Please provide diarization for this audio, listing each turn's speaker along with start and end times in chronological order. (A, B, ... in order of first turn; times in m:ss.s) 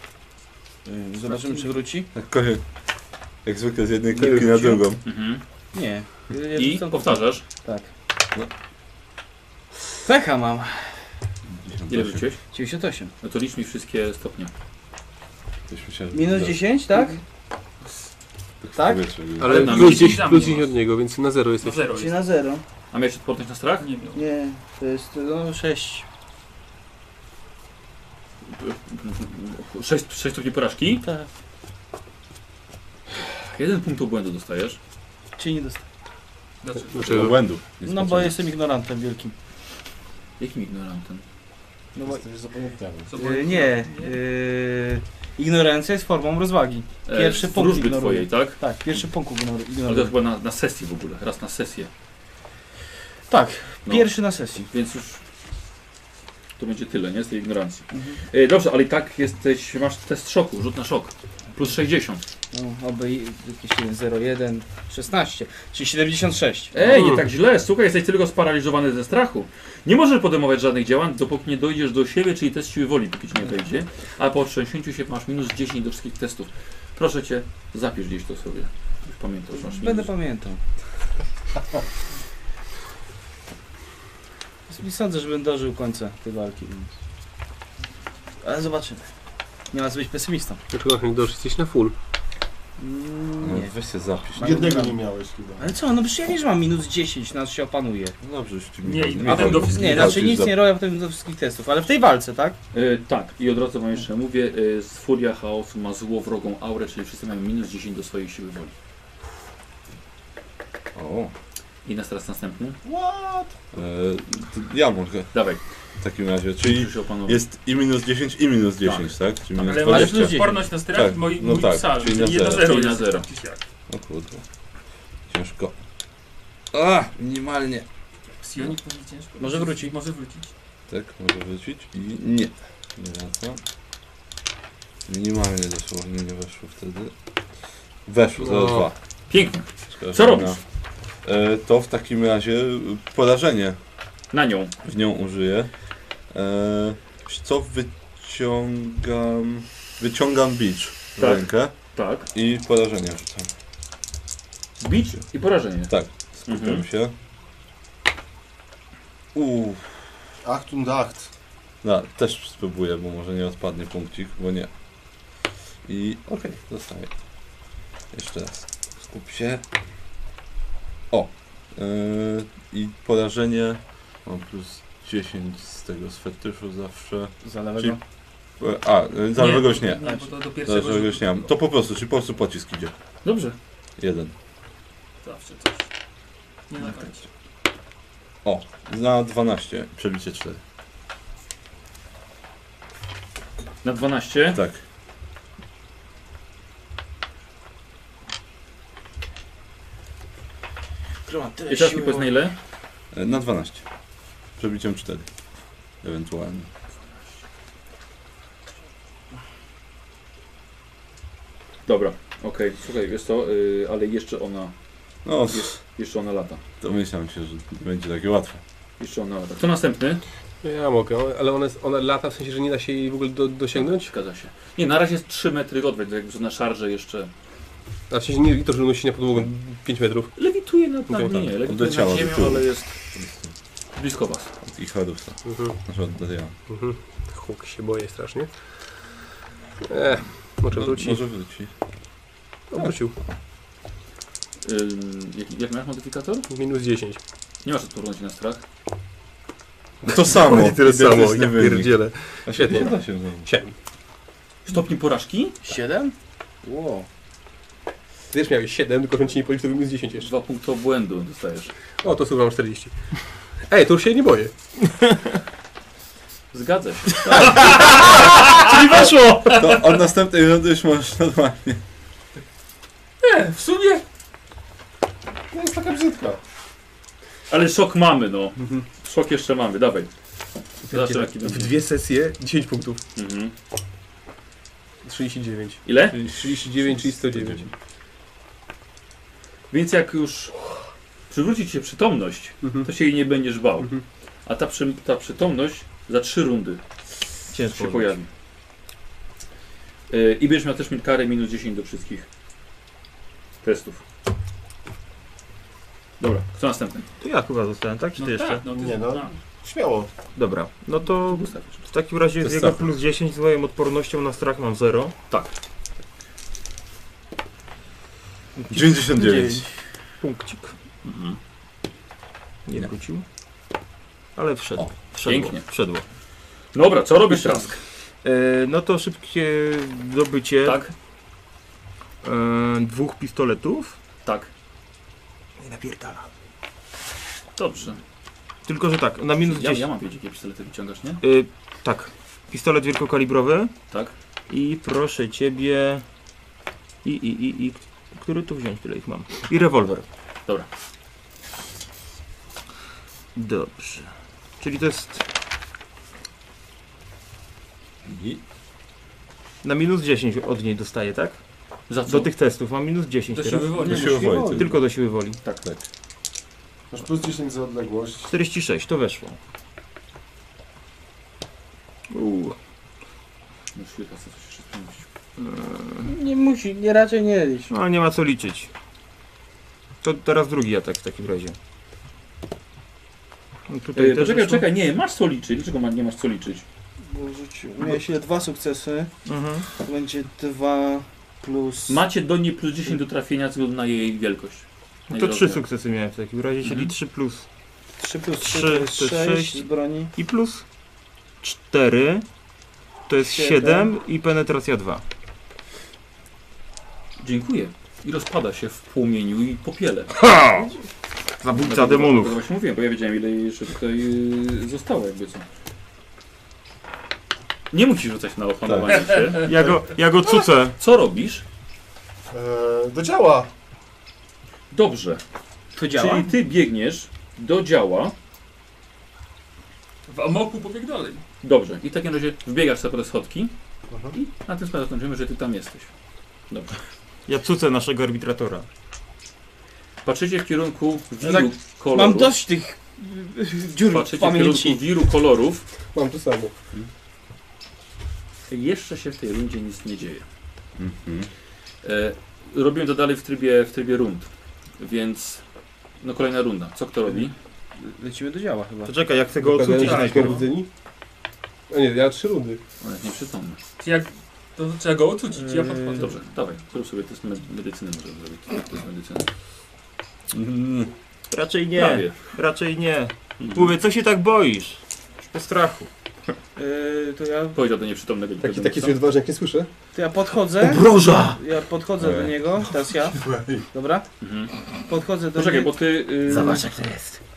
0:00.8-0:02.1 A
0:02.1-0:02.6 B
0:03.4-0:05.0 B
0:04.2-0:04.8 C
0:05.0-0:05.4 D
0:05.7-0:07.9 A
0:06.5-0:07.4 D
0:09.9-0:11.0 A
0:11.5-0:12.3 B
0:11.9-0:12.4 D
0:12.5-0:13.1 A
0:13.2-0:14.5 D
0:15.7-0:17.0 B
0:16.1-0:17.2 A
0:18.6-0:19.7 B
0:18.7-0:19.0 A
0:19.4-0:21.8 C
0:19.5-0:20.7 E
0:19.5-0:20.3 D
0:21.6-0:22.2 E
0:21.8-0:22.6 A
0:22.9-0:23.9 D
0:23.8-0:24.2 E
0:24.1-0:26.0 A
0:28.5-0:31.0 D
0:31.0-0:31.3 A
0:33.4-0:34.8 D
0:35.4-0:35.8 A
0:36.6-0:37.4 E
0:36.9-0:37.4 C
0:37.0-0:38.4 B
0:37.8-0:39.3 A
0:40.4-0:41.2 D
0:41.9-0:42.2 A
0:42.0-0:43.2 F
0:43.1-0:44.2 E
0:43.1-0:50.1 A
0:47.0-0:48.6 D
0:49.8-0:51.9 D
0:53.3-0:54.7 A
0:53.8-0:54.1 D
0:54.7-0:55.2 D
0:56.6-1:02.2 D
0:57.9-0:58.2 A
1:02.5-1:07.0 A
1:06.7-1:20.1 D
1:06.9-1:07.2 C
1:19.5-1:20.6 A
1:24.7-1:26.9 A
1:28.4-1:29.1 A
1:29.7-1:30.6 A
1:30.7-1:31.9 C
1:32.8-1:33.7 A
1:33.4-1:34.7 B
1:34.4-1:35.0 A
1:34.4-1:35.7 F
1:35.6-1:38.2 A
1:38.2-1:40.6 B
1:38.8-1:40.3 E
1:39.2-1:42.6 A
1:42.7-1:48.7 D
1:50.9-1:51.3 B
1:51.8-1:52.8 D
1:52.8-1:53.5 F
1:53.7-1:55.3 B
1:55.3-1:55.6 D
1:56.0-2:02.7 B
1:56.6-1:57.4 D
1:58.8-1:59.1 D
1:59.6-2:03.6 E
1:59.9-2:00.6 A
2:02.5-2:03.2 D
2:03.9-2:04.4 B
2:05.3-2:05.8 B
2:06.7-2:07.8 B
2:08.4-2:10.5 E
2:09.4-2:09.9 A
2:10.9-2:13.6 B
2:15.0-2:17.1 B
2:18.0-2:18.9 B
2:18.4-2:18.9 C
2:19.3-2:20.6 D
2:19.9-2:20.6 B
2:21.2-2:23.8 B
2:24.3-2:24.7 D
2:24.8-2:25.7 B
2:26.3-2:31.7 B
2:31.2-2:32.3 D
2:32.3-2:33.5 B
2:34.8-2:35.9 D
2:35.9-2:37.1 B
2:36.4-2:36.8 D
2:39.3-2:40.1 B
2:40.4-2:41.3 F
2:41.8-2:44.7 B
2:45.8-2:47.1 B
2:48.1-2:49.6 B
2:51.1-2:58.0 B
2:57.4-2:58.0 A
2:58.6-3:02.9 B
2:59.3-3:01.5 E
3:03.2-3:03.6 D
3:04.0-3:04.3 B
3:05.2-3:05.9 E
3:06.7-3:07.3 E
3:08.4-3:10.6 B
3:13.8-3:14.6 D
3:14.5-3:14.8 B
3:21.2-3:22.4 A
3:21.7-3:22.6 D
3:23.1-3:23.8 B
3:24.6-3:25.3 B
3:26.0-3:26.7 B
3:31.8-3:34.7 D
3:35.2-3:35.8 B
3:35.4-3:36.6 D
3:36.8-3:38.6 B
3:39.0-3:40.2 D
3:40.6-3:44.1 C
3:43.7-3:47.3 D
3:48.1-3:50.3 C
3:50.4-3:53.0 D
3:51.1-3:51.4 C
3:51.4-3:53.5 B
3:54.0-3:54.5 D
3:54.6-3:56.5 B
3:55.4-3:55.8 C
3:56.7-3:59.0 C
3:59.8-4:01.2 C
4:00.7-4:01.7 B
4:02.7-4:03.2 C
4:02.7-4:03.1 B
4:04.6-4:06.5 D
4:06.5-4:07.2 C
4:07.6-4:08.6 D
4:10.0-4:13.5 B
4:10.0-4:13.7 C
4:14.6-4:15.6 D
4:15.6-4:17.1 A
4:18.3-4:20.3 C
4:20.2-4:21.7 D
4:22.0-4:24.5 C
4:26.5-4:28.2 D
4:27.3-4:29.6 G
4:29.5-4:31.8 B
4:33.2-4:34.0 E
4:35.5-4:36.4 F
4:37.5-4:40.1 D
4:38.6-4:38.8 C
4:40.8-4:43.0 C
4:40.9-4:41.8 D
4:43.2-4:43.5 D
4:45.0-4:47.7 C
4:45.8-4:46.2 D
4:46.1-4:47.7 B
4:49.7-4:50.6 D
4:51.3-4:53.9 D
4:52.6-4:52.9 C
4:54.4-4:56.8 D
4:57.5-4:58.2 G
4:57.6-4:58.3 D
5:00.1-5:02.3 D
5:03.6-5:04.0 D
5:06.2-5:07.1 D
5:07.2-5:08.6 G
5:08.2-5:09.3 E
5:08.7-5:10.1 F
5:10.3-5:15.1 G
5:11.1-5:11.8 D
5:12.4-5:12.8 B
5:18.6-5:20.7 G
5:18.7-5:19.6 B
5:21.0-5:21.4 D
5:22.6-5:23.2 G
5:24.3-5:26.0 G
5:25.2-5:25.6 D
5:26.7-5:27.8 D
5:27.3-5:27.6 G
5:28.2-5:30.8 G
5:30.6-5:30.9 D
5:32.2-5:34.0 G
5:34.2-5:34.5 D
5:35.6-5:36.3 G
5:37.6-5:38.0 D
5:38.6-5:39.9 G
5:39.4-5:41.2 D
5:41.2-5:43.7 G
5:43.9-5:44.1 D
5:44.5-5:46.0 G
5:47.0-5:50.0 G
5:53.3-5:55.2 G
5:58.0-5:58.4 B
5:59.6-6:01.4 G
6:01.9-6:02.3 D
6:02.0-6:05.4 G
6:03.3-6:04.4 E
6:03.8-6:04.7 A
6:03.8-6:04.8 B
6:06.9-6:08.3 F
6:08.3-6:09.4 G
6:12.1-6:12.6 G
6:13.7-6:15.1 D
6:15.4-6:16.1 G
6:16.0-6:17.7 A
6:17.7-6:18.7 G
6:20.0-6:21.6 G
6:23.7-6:24.6 G
6:23.9-6:26.6 D
6:27.0-6:29.1 A
6:27.8-6:28.1 G
6:29.2-6:29.7 G
6:29.7-6:32.0 A
6:31.9-6:35.6 D
6:35.1-6:37.4 G
6:36.6-6:36.9 D
6:38.0-6:40.1 A
6:38.4-6:40.6 G
6:41.4-6:42.2 G
6:43.1-6:45.0 G
6:43.2-6:43.9 A
6:47.2-6:50.2 D
6:50.1-6:50.7 G
6:51.4-6:52.4 G
6:51.6-6:55.4 D
6:57.7-6:59.5 D
6:58.6-6:59.1 B
6:58.9-6:59.8 E
6:59.4-7:00.8 G
7:00.8-7:01.4 D
7:02.3-7:03.5 F
7:04.7-7:05.2 D
7:05.7-7:06.3 A
7:05.9-7:08.1 D
7:10.1-7:11.2 E
7:11.4-7:13.5 D
7:13.9-7:14.2 F
7:14.1-7:15.9 D
7:16.5-7:16.7 D
7:17.3-7:18.7 G
7:20.0-7:22.3 D
7:21.2-7:24.8 A
7:23.9-7:25.6 D
7:25.9-7:26.5 C
7:28.5-7:30.2 D
7:30.8-7:31.3 B
7:31.8-7:35.4 D
7:36.0-7:37.3 D
7:37.8-7:38.9 A
7:38.8-7:40.5 G
7:39.4-7:40.7 C
7:39.8-7:40.3 A
7:41.7-7:42.6 C
7:42.8-7:43.6 D
7:43.8-7:46.2 E
7:45.3-7:46.0 G
7:46.0-7:49.3 D
7:50.3-7:50.9 B
7:51.3-7:55.9 G
7:51.7-7:52.2 D
7:56.6-7:57.6 A
7:57.5-7:59.0 D
7:58.4-7:59.7 C
7:59.9-8:04.1 A
8:00.6-8:01.4 D
8:02.0-8:02.4 B
8:03.1-8:03.6 F
8:04.2-8:04.5 D
8:04.8-8:05.8 A
8:05.3-8:06.7 D
8:06.3-8:07.2 G
8:06.3-8:06.6 A